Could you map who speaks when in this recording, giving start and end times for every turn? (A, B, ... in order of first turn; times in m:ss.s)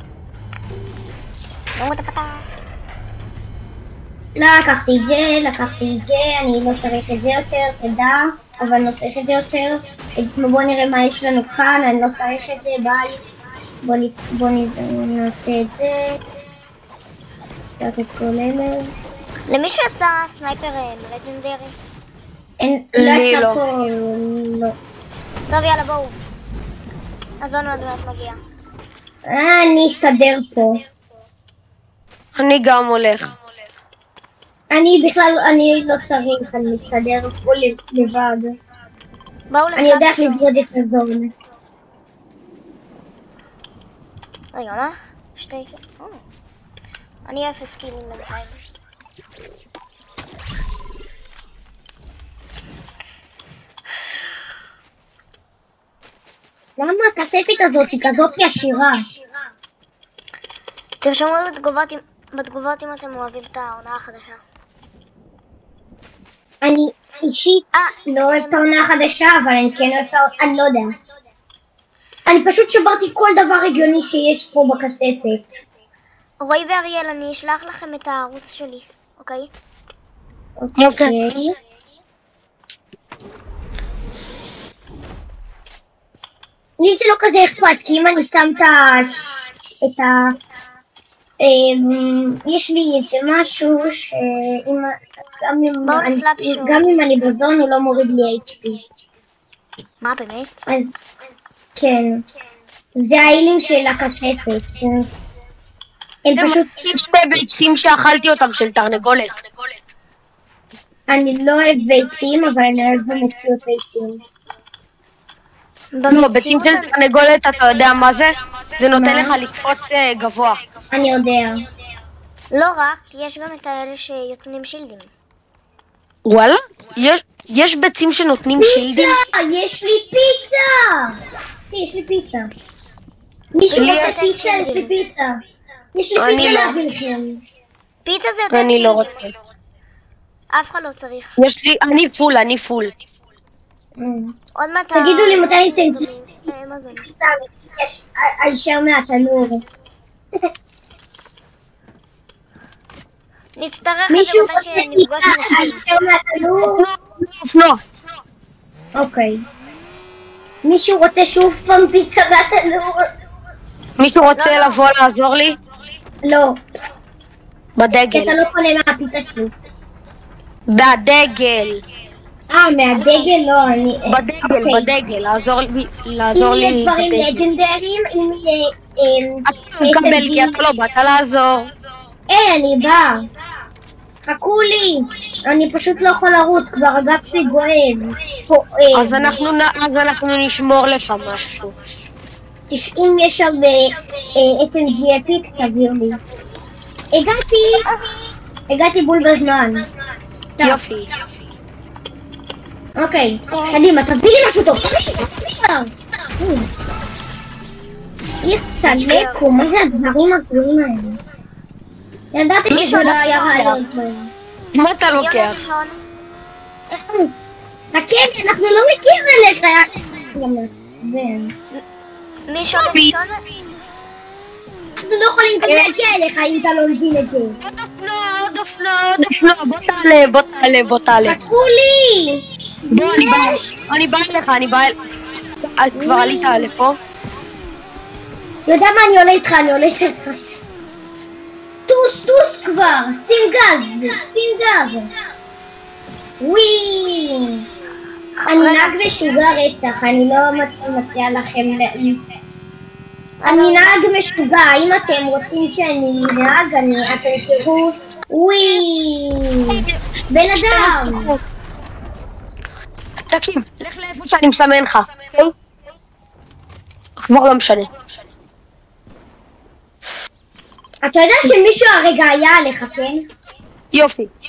0:01.8-0:02.5 A
0:04.4-0:13.2 B
0:13.8-0:16.2 B
0:17.8-0:18.9 B
0:19.5-0:21.8 A
0:22.6-0:24.8 B
0:22.9-0:23.6 C
0:25.5-0:26.2 A
0:27.4-0:28.4 A
0:29.3-0:30.8 B
0:32.4-0:33.4 C
0:34.7-0:38.6 B
0:39.5-0:40.5 A
0:39.8-0:41.4 B
0:44.5-0:46.2 A
0:47.3-0:48.6 A
0:56.8-0:59.1 B
1:01.0-1:04.4 A
1:06.6-1:11.0 B
1:12.3-1:15.6 B
1:16.4-1:19.5 A
1:20.6-1:21.6 B
1:20.8-1:21.1 C
1:26.8-1:30.4 B
1:31.4-1:38.8 B
1:35.8-1:37.0 A
1:40.0-1:40.6 A
1:41.8-1:42.2 B
1:43.0-1:45.1 B
1:46.2-1:46.8 B
1:46.4-1:49.3 C
1:51.1-1:54.2 B
1:56.0-1:56.9 A
1:56.1-2:00.6 C
1:58.9-1:59.4 B
2:00.9-2:01.7 B
2:02.5-2:05.1 A
2:06.3-2:09.2 C
2:08.6-2:11.2 B
2:11.7-2:12.5 B
2:13.5-2:15.4 B
2:13.7-2:14.2 C
2:13.7-2:15.0 A
2:16.0-2:17.4 B
2:16.2-2:16.8 C
2:18.0-2:19.3 A
2:18.5-2:19.3 C
2:20.5-2:21.3 A
2:21.4-2:22.9 C
2:24.0-2:24.4 B
2:24.6-2:27.1 A
2:24.9-2:26.1 B
2:26.9-2:29.6 B
2:33.6-2:35.8 A
2:34.1-2:36.8 B
2:36.7-2:37.8 C
2:39.0-2:39.4 B
2:40.6-2:43.1 B
2:44.0-2:45.6 C
2:44.4-2:44.8 A
2:46.2-2:46.6 B
2:47.8-2:48.4 C
2:48.1-2:49.5 B
2:50.7-2:51.8 C
2:52.5-2:54.9 B
2:52.9-2:53.3 A
2:54.1-2:57.4 C
2:56.3-3:00.6 B
2:59.5-3:01.7 C
3:02.3-3:03.3 B
3:04.2-3:09.4 B
3:08.9-3:11.8 C
3:12.7-3:16.2 B
3:17.1-3:17.9 B
3:17.8-3:18.2 A
3:18.7-3:19.9 B
3:20.6-3:21.1 C
3:23.0-3:26.7 B
3:28.4-3:31.2 B
3:28.8-3:29.4 C
3:32.3-3:34.3 B
3:32.7-3:33.8 A
3:34.7-3:35.7 C
3:35.2-3:36.0 A
3:36.9-3:37.3 B
3:37.9-3:41.5 B
3:42.5-3:43.4 A
3:42.7-3:43.1 C
3:45.0-3:47.6 B
3:45.6-3:46.0 C
3:47.6-3:51.4 C
3:51.2-3:53.7 B
3:52.9-3:55.0 C
3:55.8-3:57.0 C
3:55.9-3:56.7 B
3:58.7-4:00.4 B
4:01.9-4:05.1 B
4:06.4-4:07.7 B
4:08.4-4:09.0 A
4:08.5-4:12.2 B
4:13.4-4:14.0 A
4:13.4-4:21.4 B
4:19.7-4:21.4 C
4:23.3-4:25.5 C
4:27.2-4:27.9 C
4:31.0-4:33.2 B
4:33.9-4:34.3 C